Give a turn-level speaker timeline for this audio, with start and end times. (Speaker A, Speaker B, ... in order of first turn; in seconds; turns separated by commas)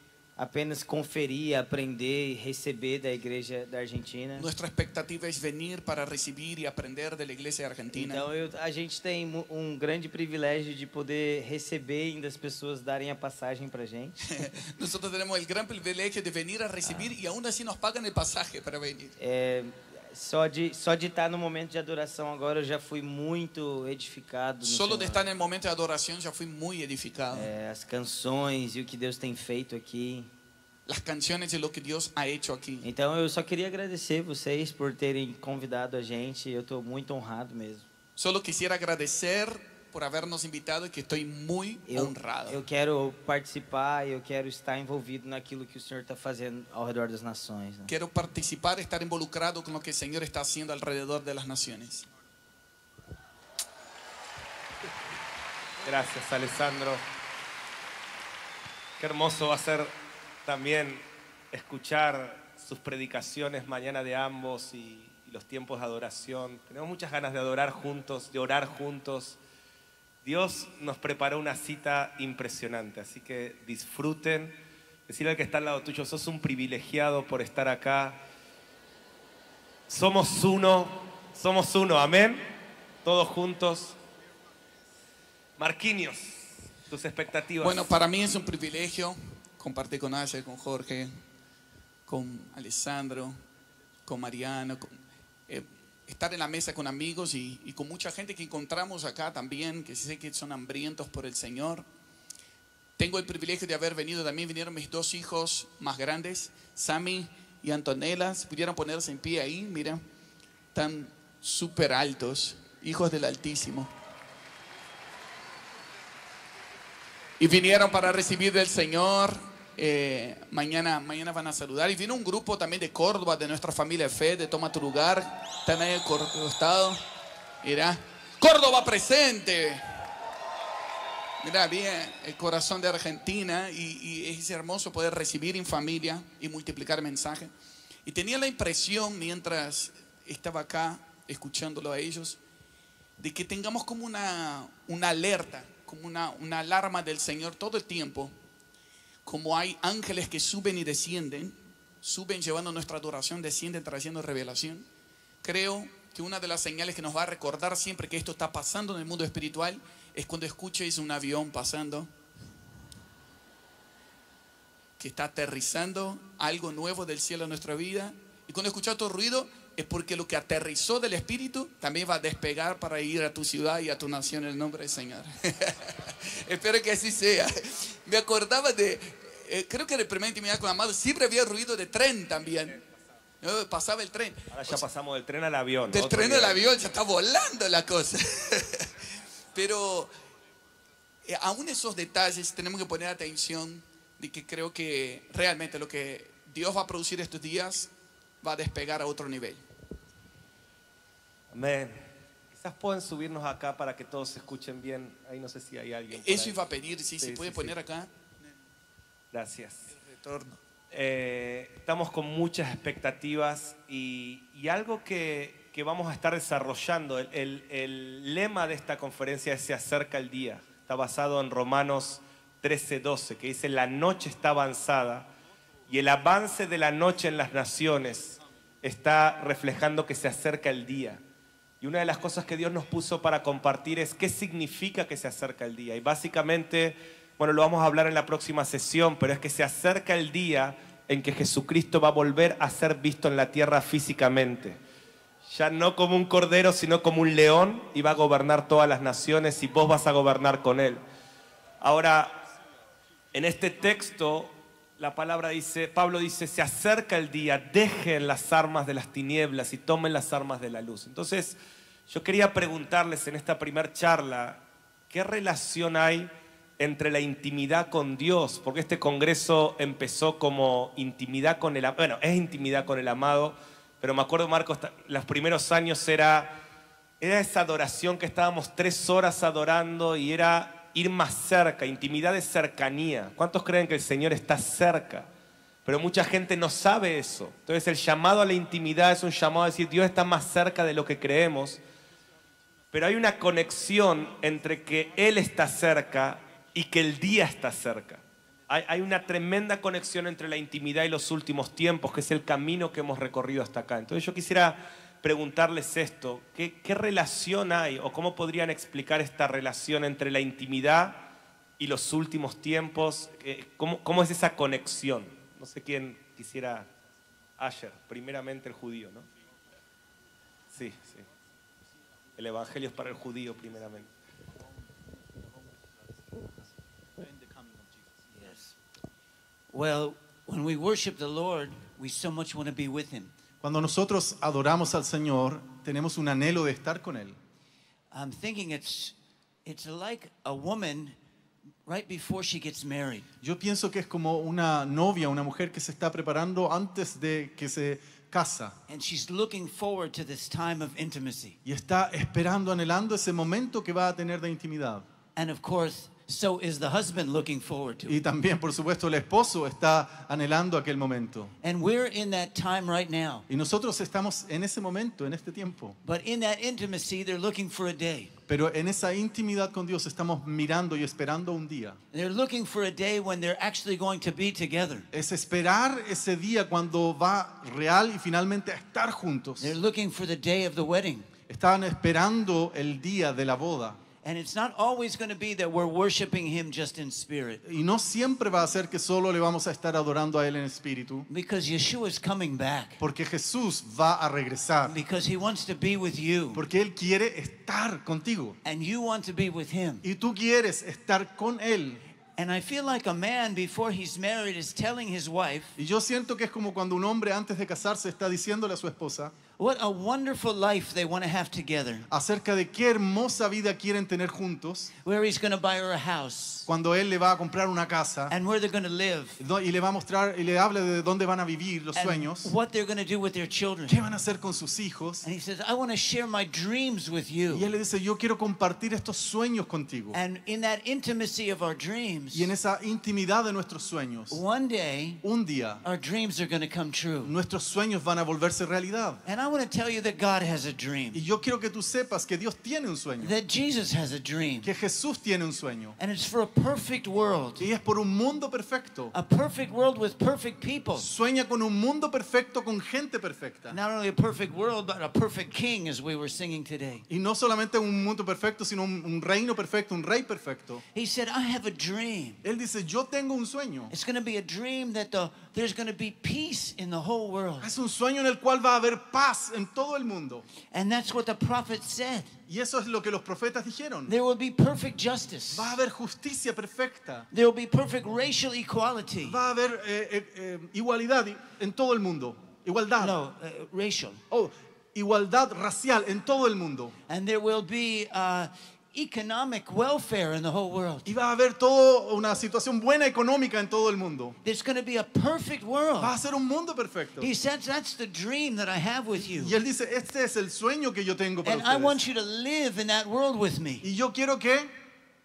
Speaker A: 0.4-4.5, Speaker B: 4.4-8.2, Speaker A: 7.9-14.2, Speaker B: 14.3-19.1, Speaker A: 19.2-25.2, Speaker B: 24.6-27.5, Speaker A: 27.3-30.3, Speaker B: 30.9-32.9, Speaker A: 32.8-37.9, Speaker B: 38.2-42.6, Speaker A: 41.9-47.9, Speaker B: 47.9-52.1, Speaker C: 55.8-57.0, Speaker C: 59.0-59.9, Speaker C: 60.5-69.4, Speaker C: 70.2-74.6, Speaker C: 75.1-78.2, Speaker C: 79.9-82.4, Speaker C: 83.0-84.0, Speaker C: 85.6-87.9, Speaker B: 87.6-91.1, Speaker B: 92.1-93.4, Speaker B: 94.0-95.0, Speaker B: 95.5-101.9, Speaker B: 103.0-110.0, Speaker B: 110.7-113.9, Speaker B: 117.4-127.0, Speaker B: 127.6-129.8, Speaker B: 131.4-137.5, Speaker B: 138.1-142.4, Speaker B: 143.2-148.3, Speaker B: 149.2-154.9, Speaker B: 155.4-162.1, Speaker B: 165.0-182.8, Speaker B: 183.4-184.8, Speaker C: 184.5-186.7, Speaker B: 185.9-189.0, Speaker B: 189.5-190.1, Speaker B: 191.3-197.9, Speaker B: 198.4-199.6, Speaker C: 201.5-206.6, Speaker B: 206.1-208.1, Speaker C: 207.2-207.8, Speaker C: 209.3-209.9, Speaker B: 210.0-210.5, Speaker C: 210.9-225.3, Speaker C: 225.9-231.2, Speaker C: 231.8-244.8, Speaker C: 245.5-251.0, Speaker C: 251.8-252.4, Speaker C: 253.3-261.6, Speaker C: 262.1-276.6, Speaker C: 277.2-285.3, Speaker C: 285.9-291.8, Speaker C: 292.9-316.9, Speaker C: 317.6-319.3, Speaker C: 320.7-321.3, Speaker C: 322.4-324.1, Speaker D: 327.2-328.6, Speaker E: 329.7-333.3, Speaker D: 333.6-337.4, Speaker E: 338.1-341.2, Speaker E: 341.9-343.3, Speaker D: 343.4-348.8, Speaker E: 348.9-351.6, Speaker D: 351.6-355.1, Speaker E: 355.4-358.2, Speaker D: 358.1-361.5, Speaker E: 361.6-363.5, Speaker D: 363.5-366.0, Speaker E: 366.0-368.4, Speaker D: 368.5-372.0, Speaker E: 372.1-375.1, Speaker D: 375.1-379.7, Speaker E: 379.6-381.3, Speaker D: 381.5-384.0, Speaker E: 384.2-387.6, Speaker D: 387.6-391.3, Speaker E: 391.3-393.0, Speaker D: 393.0-395.0, Speaker E: 394.9-396.6, Speaker D: 396.6-398.6, Speaker E: 398.6-400.0, Speaker D: 400.0-402.0, Speaker E: 402.4-405.8, Speaker D: 405.8-409.3, Speaker E: 409.6-412.1, Speaker D: 412.1-414.9, Speaker E: 415.0-416.7, Speaker D: 416.7-418.3, Speaker E: 418.3-419.4, Speaker D: 419.4-422.5, Speaker E: 421.9-424.0, Speaker D: 423.9-425.3, Speaker E: 425.2-427.7, Speaker D: 427.5-430.2, Speaker E: 430.1-432.5, Speaker D: 432.3-434.4, Speaker E: 434.3-435.2, Speaker D: 435.2-435.8, Speaker E: 435.8-437.3, Speaker D: 437.2-439.2, Speaker E: 439.3-441.2, Speaker D: 441.1-443.3, Speaker E: 443.2-444.7, Speaker D: 444.6-446.0, Speaker E: 446.0-447.7, Speaker D: 447.6-449.1, Speaker E: 449.1-451.1, Speaker D: 451.0-453.8, Speaker E: 453.7-457.1, Speaker D: 457.1-460.8, Speaker E: 460.9-462.4, Speaker D: 462.4-463.9, Speaker E: 463.9-467.7, Speaker D: 467.6-470.4, Speaker E: 470.7-472.3, Speaker D: 472.5-474.1, Speaker E: 474.1-475.7, Speaker D: 475.5-477.3, Speaker E: 477.3-479.4, Speaker D: 479.2-483.2, Speaker E: 483.0-484.2, Speaker D: 484.3-486.9, Speaker E: 487.1-491.1, Speaker D: 491.1-494.4, Speaker E: 494.4-496.1, Speaker D: 496.0-497.3, Speaker E: 497.2-499.6, Speaker D: 499.2-502.0, Speaker E: 501.4-503.9, Speaker D: 503.8-504.7